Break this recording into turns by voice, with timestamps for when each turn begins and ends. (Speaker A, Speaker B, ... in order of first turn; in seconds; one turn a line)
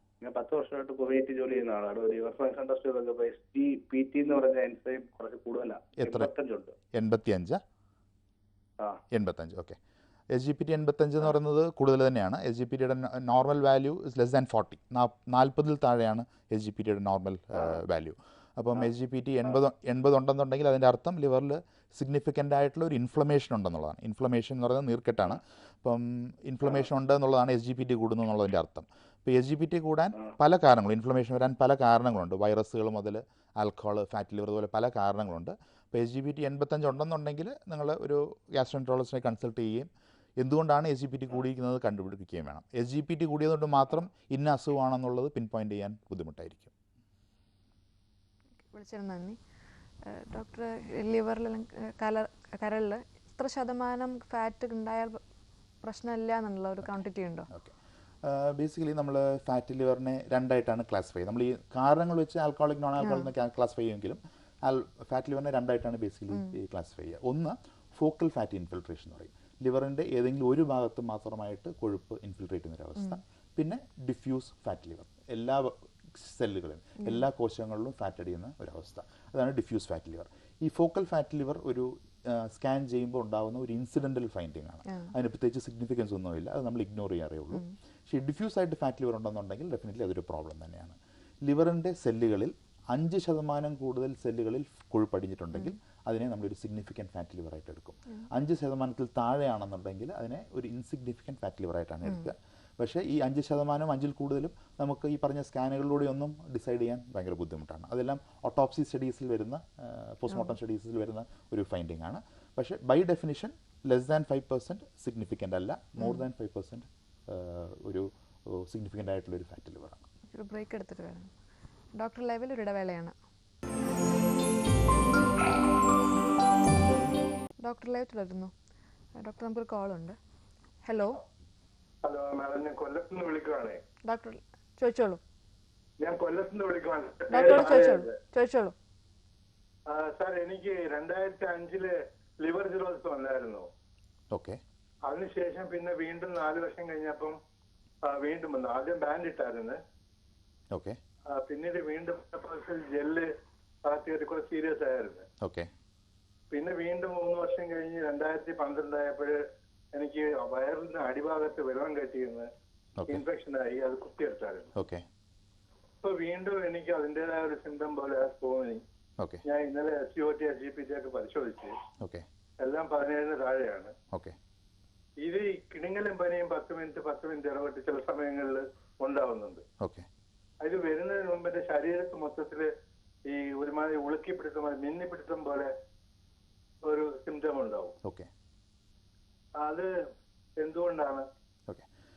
Speaker A: 0.2-6.7
Speaker B: 6.0-6.3
Speaker B: 6.9-7.6
Speaker B: 9.1-9.8
Speaker B: 10.3-39.9
Speaker B: 40.4-46.7
Speaker C: 48.7-49.4
Speaker C: 50.1-55.2
Speaker C: 55.8-57.5
Speaker B: 57.5-120.0
Speaker C: 63.0-63.3
Speaker C: 120.3-121.3
Speaker C: 122.0-123.1
Speaker C: 127.6-128.5
Speaker C: 129.2-130.2
Speaker C: 130.8-131.2
Speaker D: 132.0-133.8
Speaker C: 134.1-135.2
Speaker D: 136.0-138.1
Speaker C: 137.3-138.7
Speaker D: 139.9-143.7
Speaker B: 144.3-144.6
Speaker D: 145.1-147.3
Speaker D: 148.0-149.8
Speaker B: 150.7-151.0
Speaker D: 151.3-153.3
Speaker D: 153.8-155.2
Speaker B: 155.4-155.7
Speaker D: 156.5-159.4
Speaker D: 159.9-162.5
Speaker D: 163.1-164.7
Speaker B: 164.8-165.0
Speaker D: 166.0-168.8
Speaker D: 169.5-171.7
Speaker B: 172.0-172.2
Speaker D: 172.6-173.9
Speaker D: 175.2-179.6
Speaker B: 179.8-180.1
Speaker D: 180.6-182.7
Speaker D: 183.3-185.7
Speaker D: 186.8-187.9
Speaker B: 188.0-188.3
Speaker D: 189.6-189.9
Speaker D: 190.6-191.2